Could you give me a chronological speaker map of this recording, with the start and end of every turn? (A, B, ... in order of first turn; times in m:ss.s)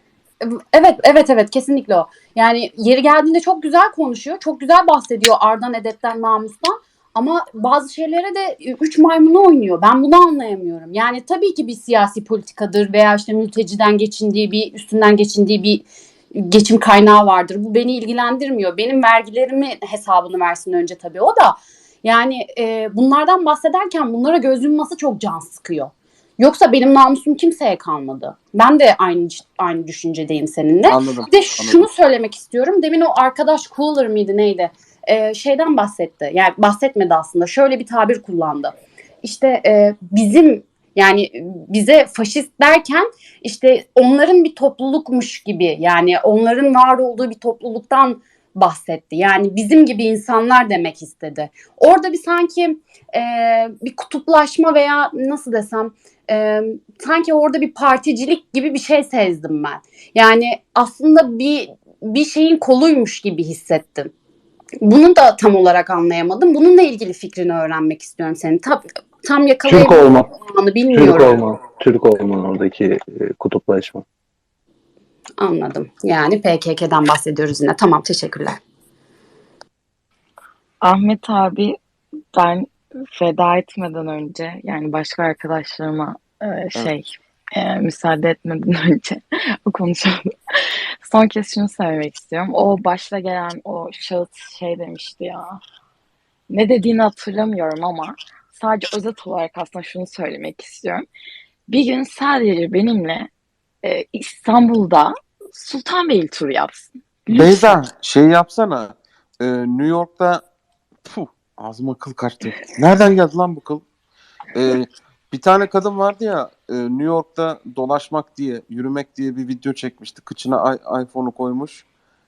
0:00.4-1:04.1 A
0:30.9-0:31.9 B
1:04.8-1:11.4 A
1:09.6-1:10.3 C
1:10.9-1:14.0 C
1:15.4-1:18.6 A
1:20.8-1:21.8 D
1:22.3-1:30.2 D
1:31.0-1:35.6 D
1:36.5-1:41.1 D
1:41.7-1:43.3 D
1:43.8-1:47.8 D
1:47.3-1:50.4 B
1:51.0-1:53.8 B
1:54.6-2:01.8 B